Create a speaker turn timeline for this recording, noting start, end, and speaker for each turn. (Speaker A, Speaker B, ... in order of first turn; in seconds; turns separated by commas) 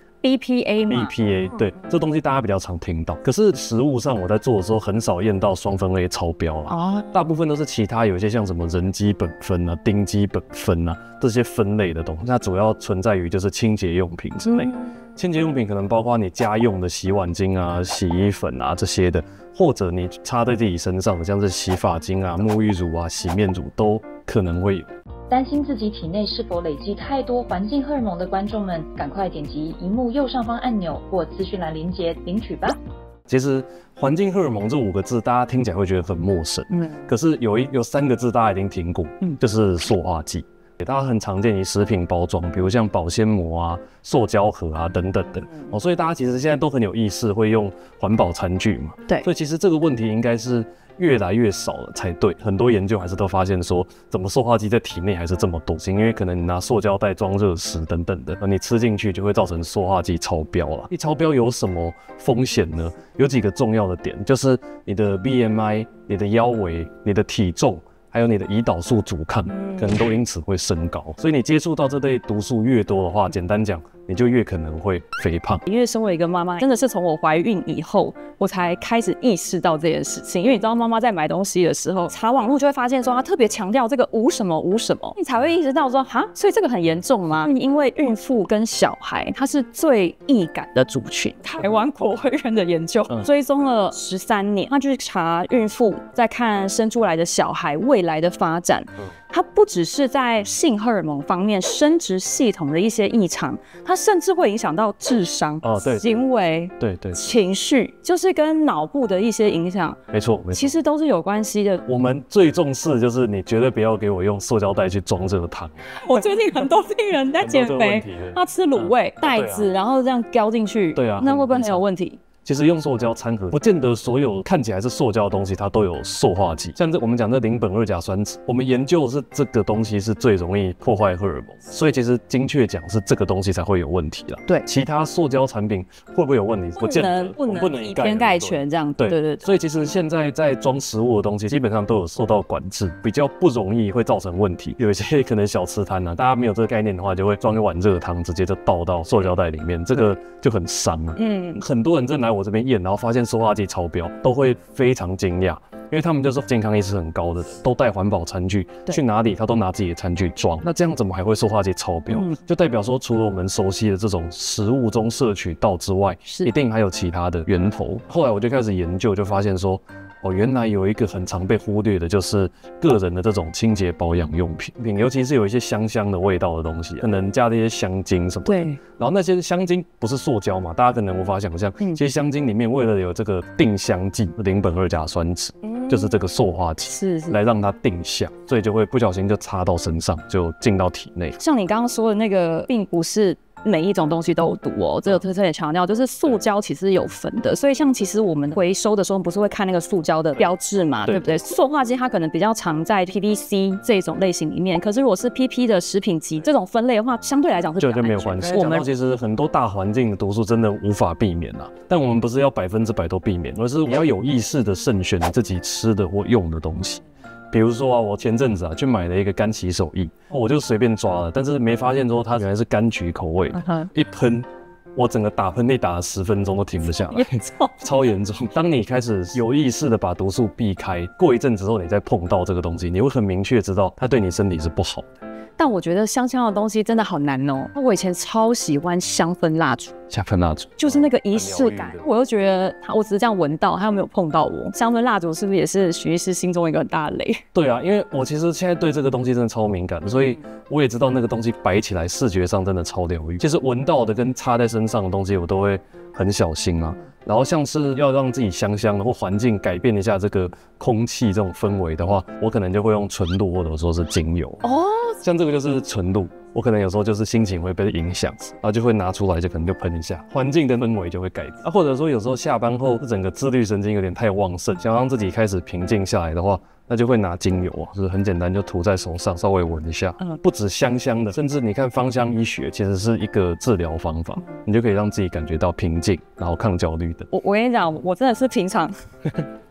Speaker A: 0.2-1.1, Speaker B: 0.9-24.9, Speaker A: 6.7-7.2, Speaker A: 14.5-14.8, Speaker C: 25.3-32.8, Speaker B: 33.3-75.7, Speaker A: 69.5-70.0, Speaker A: 75.7-110.0, Speaker B: 105.6-106.1, Speaker B: 106.8-107.3, Speaker B: 110.1-110.8, Speaker A: 110.5-111.8, Speaker B: 111.9-115.9, Speaker A: 115.9-122.2, Speaker B: 117.3-119.7, Speaker B: 121.0-121.8, Speaker B: 122.4-191.4, Speaker A: 136.8-139.5, Speaker A: 151.2-151.6, Speaker A: 162.1-162.4, Speaker A: 166.3-166.5, Speaker A: 178.5-178.8, Speaker A: 185.7-186.2, Speaker A: 186.9-187.4, Speaker A: 191.4-208.9, Speaker B: 201.1-201.4, Speaker B: 207.8-235.2, Speaker A: 223.5-223.9, Speaker A: 227.0-227.7, Speaker A: 235.6-240.0, Speaker B: 240.1-242.1, Speaker A: 240.8-247.4, Speaker B: 247.5-264.6, Speaker A: 264.6-265.2, Speaker B: 265.2-287.3, Speaker A: 287.3-289.4